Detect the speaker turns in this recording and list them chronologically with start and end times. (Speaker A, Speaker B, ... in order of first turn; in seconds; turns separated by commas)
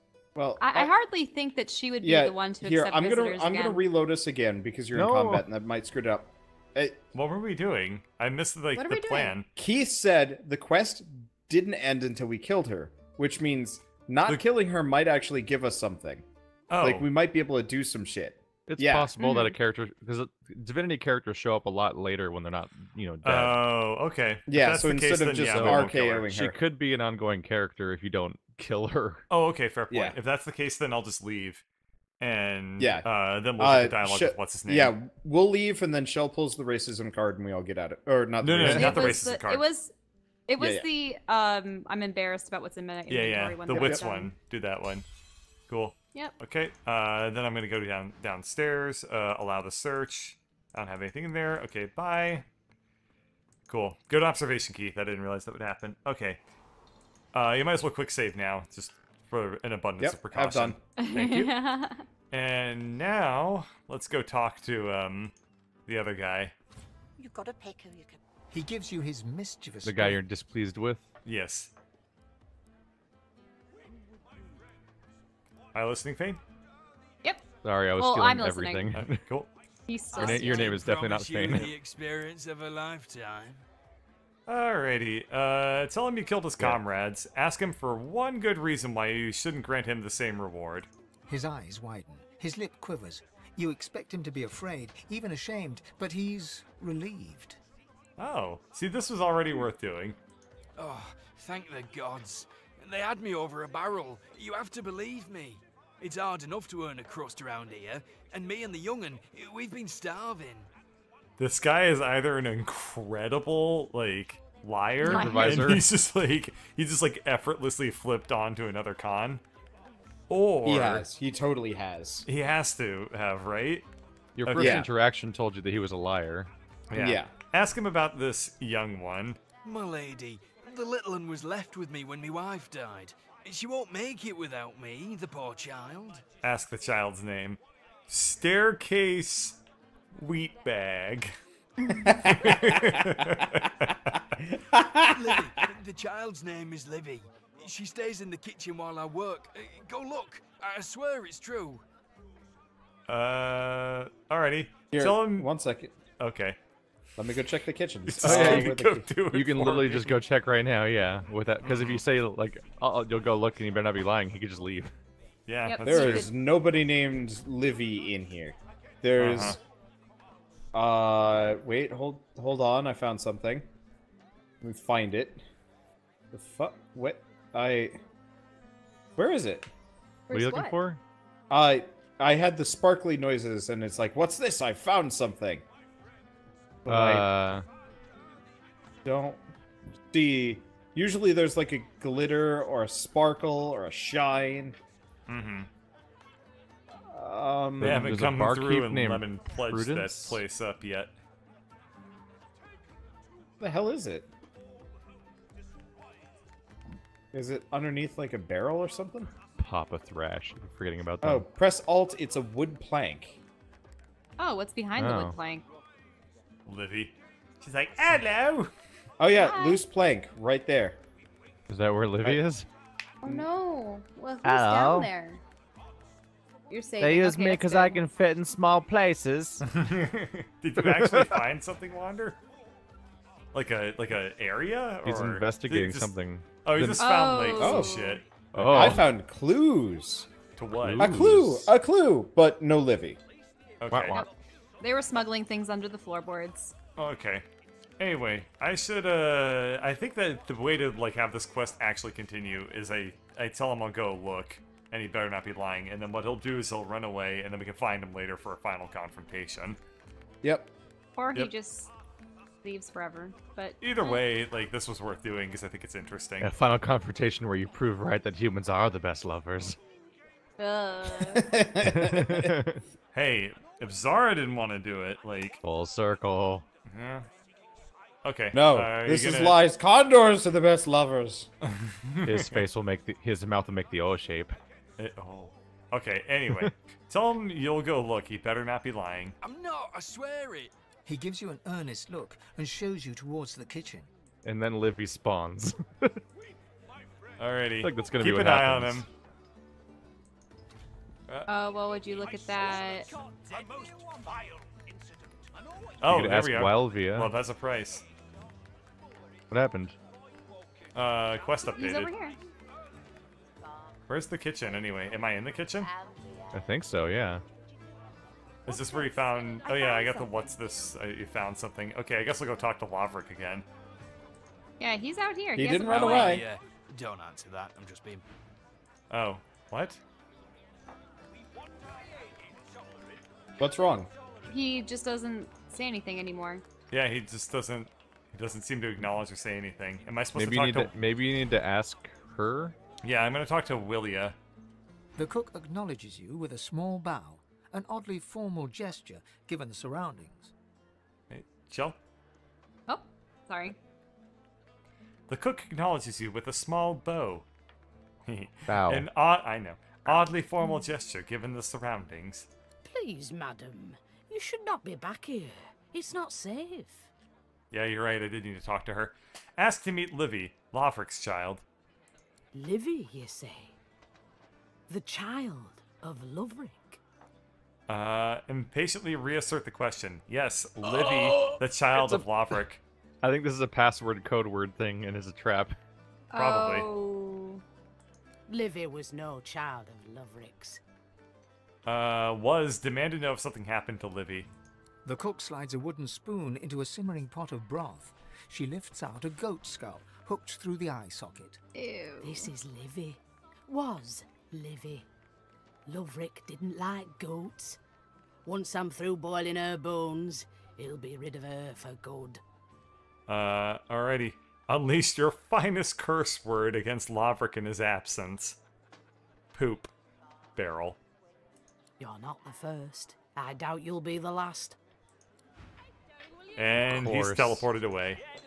Speaker A: 0.3-0.9, Speaker B: 0.6-3.8, Speaker A: 2.0-7.0, Speaker C: 5.0-5.5, Speaker D: 7.1-9.5, Speaker B: 8.7-9.4, Speaker A: 9.6-16.2, Speaker D: 16.7-17.1, Speaker A: 16.8-19.1, Speaker C: 18.7-23.6, Speaker B: 19.2-19.6, Speaker D: 23.2-26.2, Speaker A: 24.5-26.6, Speaker C: 25.5-29.2, Speaker D: 29.3-31.6, Speaker A: 29.9-30.2, Speaker D: 32.2-35.0, Speaker A: 32.8-39.2, Speaker D: 38.4-39.7, Speaker B: 38.7-39.9, Speaker B: 40.5-44.3, Speaker A: 40.6-40.9, Speaker D: 43.1-45.0, Speaker A: 43.7-44.0, Speaker D: 45.7-52.5, Speaker D: 53.7-56.4, Speaker D: 57.3-60.8, Speaker A: 60.0-60.8, Speaker B: 61.0-62.0, Speaker D: 62.3-65.3, Speaker D: 65.9-66.5, Speaker E: 67.2-68.2, Speaker F: 68.5-70.2, Speaker C: 69.8-71.1, Speaker D: 71.2-71.7, Speaker D: 75.7-76.4, Speaker B: 77.2-78.9, Speaker C: 77.6-79.2, Speaker D: 78.9-79.5, Speaker B: 79.9-80.8, Speaker G: 80.1-83.7, Speaker C: 80.2-81.7, Speaker D: 84.5-90.9, Speaker F: 91.3-97.6, Speaker D: 98.2-100.2, Speaker G: 100.8-110.7, Speaker D: 111.4-119.4, Speaker B: 115.0-115.7, Speaker C: 115.1-115.9, Speaker D: 120.3-121.1, Speaker A: 120.7-122.3, Speaker D: 122.2-123.9, Speaker C: 124.4-126.5, Speaker D: 124.4-124.9, Speaker A: 124.6-124.9, Speaker D: 126.9-129.4, Speaker A: 126.9-127.3, Speaker G: 129.6-136.3, Speaker D: 136.4-139.6, Speaker D: 140.1-141.3, Speaker A: 142.0-143.4, Speaker D: 142.2-144.1, Speaker A: 144.6-145.1, Speaker G: 145.1-151.8, Speaker D: 153.1-155.5, Speaker A: 154.9-155.9, Speaker D: 156.2-156.6, Speaker A: 157.2-159.1, Speaker D: 158.1-160.2, Speaker C: 158.2-164.9, Speaker D: 161.6-162.1, Speaker D: 165.5-166.2, Speaker B: 165.6-166.3, Speaker A: 165.8-169.6, Speaker D: 169.2-169.6, Speaker A: 170.7-173.7, Speaker A: 174.6-175.4, Speaker A: 176.3-178.0, Speaker A: 179.2-179.7, Speaker B: 180.3-180.8, Speaker C: 180.3-181.0, Speaker A: 181.5-185.6, Speaker A: 186.8-187.3, Speaker C: 186.9-187.7, Speaker A: 189.1-189.4, Speaker A: 190.1-194.8, Speaker D: 195.3-195.7, Speaker A: 197.0-198.1, Speaker C: 197.8-200.4, Speaker D: 197.8-201.1, Speaker A: 203.6-204.3, Speaker A: 207.3-209.3, Speaker C: 209.6-211.5, Speaker A: 211.2-213.4, Speaker B: 214.4-215.6, Speaker C: 215.0-215.3, Speaker D: 216.7-218.7, Speaker A: 219.2-221.0, Speaker B: 219.3-219.8, Speaker C: 221.7-222.7, Speaker B: 223.2-225.4, Speaker H: 224.4-225.1, Speaker B: 226.7-228.1, Speaker H: 227.0-229.6, Speaker D: 229.7-232.4, Speaker C: 230.8-231.4, Speaker D: 233.5-239.0, Speaker C: 235.0-237.1, Speaker B: 237.0-238.2, Speaker A: 237.5-238.0, Speaker C: 238.5-239.1, Speaker A: 238.7-240.3, Speaker D: 240.6-241.3, Speaker C: 240.8-241.7, Speaker A: 241.0-243.2, Speaker D: 243.8-244.3, Speaker C: 243.9-244.2, Speaker B: 244.8-246.8, Speaker D: 247.0-247.4, Speaker D: 248.0-259.8, Speaker A: 260.4-260.7, Speaker B: 261.1-261.9, Speaker B: 262.6-264.2, Speaker D: 263.8-266.5, Speaker C: 266.4-269.8, Speaker B: 270.6-271.5, Speaker A: 271.3-272.6, Speaker C: 271.9-272.8, Speaker D: 273.1-275.6, Speaker C: 275.6-276.6, Speaker D: 276.9-277.3, Speaker D: 278.2-279.6, Speaker A: 278.5-281.5, Speaker D: 281.6-282.6, Speaker C: 282.2-284.6, Speaker D: 285.0-289.4, Speaker G: 289.4-290.7, Speaker F: 291.1-294.1, Speaker C: 294.4-296.2, Speaker D: 297.4-299.1, Speaker C: 297.8-299.1, Speaker B: 301.5-303.1, Speaker G: 303.1-303.9, Speaker D: 306.0-308.0, Speaker C: 306.1-307.3, Speaker C: 309.5-310.0, Speaker D: 310.9-312.1, Speaker B: 311.7-312.4, Speaker D: 314.1-315.9, Speaker C: 316.5-317.4, Speaker D: 318.6-323.6, Speaker B: 319.6-320.3, Speaker B: 324.8-326.4, Speaker A: 325.6-326.5, Speaker G: 325.8-328.2, Speaker D: 329.1-330.0, Speaker A: 333.6-334.1, Speaker B: 334.5-336.6, Speaker D: 336.9-340.9, Speaker C: 340.3-342.8, Speaker D: 343.0-344.4, Speaker F: 345.1-350.5, Speaker D: 351.3-352.0, Speaker B: 352.9-353.8, Speaker D: 355.3-357.5, Speaker D: 358.3-362.5, Speaker H: 358.7-359.1, Speaker E: 362.9-367.1, Speaker D: 367.7-371.6, Speaker E: 372.5-373.8, Speaker E: 374.9-377.0, Speaker D: 377.9-382.8, Speaker C: 382.0-382.2, Speaker C: 383.2-385.8, Speaker B: 386.3-387.6, Speaker D: 386.4-386.9, Speaker E: 388.5-390.8, Speaker D: 391.9-394.5, Speaker F: 395.1-401.6, Speaker B: 401.8-402.5, Speaker E: 402.2-405.1, Speaker E: 405.9-407.8, Speaker E: 408.4-412.4, Speaker D: 413.3-418.6, Speaker D: 419.5-419.9, Speaker D: 420.6-421.0, Speaker E: 422.0-424.8, Speaker D: 426.6-428.2, Speaker C: 426.9-427.7